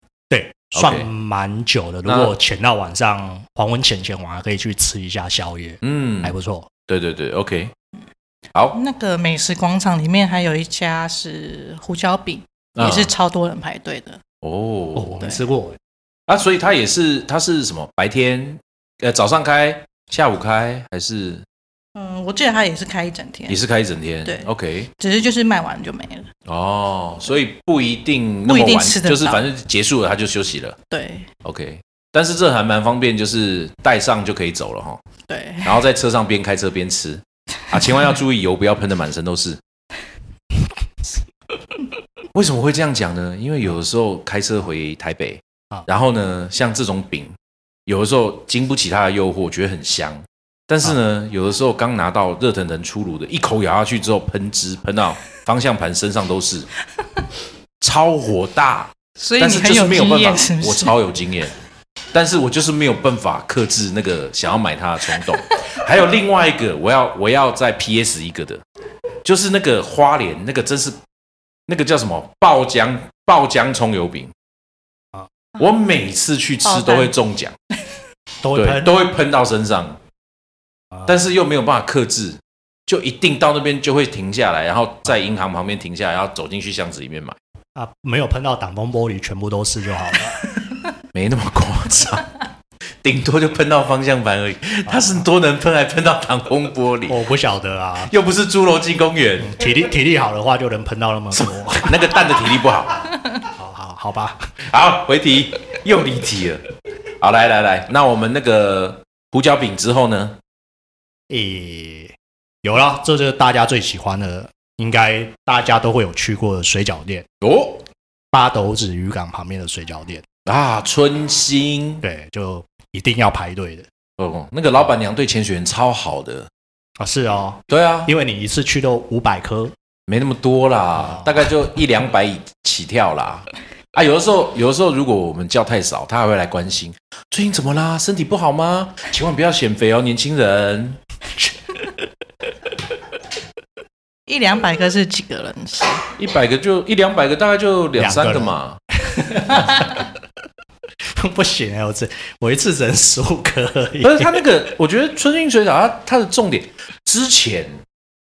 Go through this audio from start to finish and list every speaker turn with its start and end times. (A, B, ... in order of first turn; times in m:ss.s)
0:00.3-0:06.7 A
0:00.7-0:01.1 B
0:02.0-0:02.3 B
0:05.8-0:06.3 B
0:06.9-0:07.7 B
0:08.5-0:08.8 B
0:08.7-0:14.2 C
0:12.8-0:13.1 B
0:14.4-0:15.2 B
0:15.0-0:15.8 A
0:15.2-0:15.4 C
0:16.3-0:21.4 B
0:22.0-0:23.6 C
0:23.5-0:24.9 B
0:24.2-0:26.3 C
0:26.4-0:30.8 B
0:28.4-0:29.5 C
0:30.9-0:31.3 C
0:31.4-0:35.0 B
0:35.3-0:35.8 C
0:35.6-0:39.6 B
0:42.3-0:56.7 B
0:57.8-1:01.5 B
0:59.2-1:01.0 C
1:02.1-1:08.6 B
1:09.2-1:11.0 B
1:11.7-1:14.3 B
1:15.6-1:17.5 B
1:16.6-1:17.1 C
1:18.4-1:18.9 A
1:18.5-1:20.0 B
1:21.0-1:27.4 B
1:27.7-1:30.4 A
1:30.7-1:32.4 B
1:33.0-1:37.2 B
1:34.9-1:35.2 A
1:37.1-1:38.1 A
1:38.0-1:39.6 B
1:39.4-1:42.2 A
1:41.8-1:43.1 B
1:43.5-1:44.5 A
1:44.6-1:46.6 B
1:47.2-1:50.4 B
1:51.3-1:57.2 A
1:57.4-1:57.8 B
1:58.3-2:00.2 A
2:00.4-2:02.0 B
2:02.0-2:03.9 A
2:04.2-2:06.5 B
2:07.0-2:09.7 A
2:07.7-2:08.1 B
2:10.1-2:21.0 B
2:24.3-2:26.0 C
2:26.2-2:28.8 B
2:28.0-2:30.1 A
2:31.2-2:34.4 A
2:34.0-2:37.8 B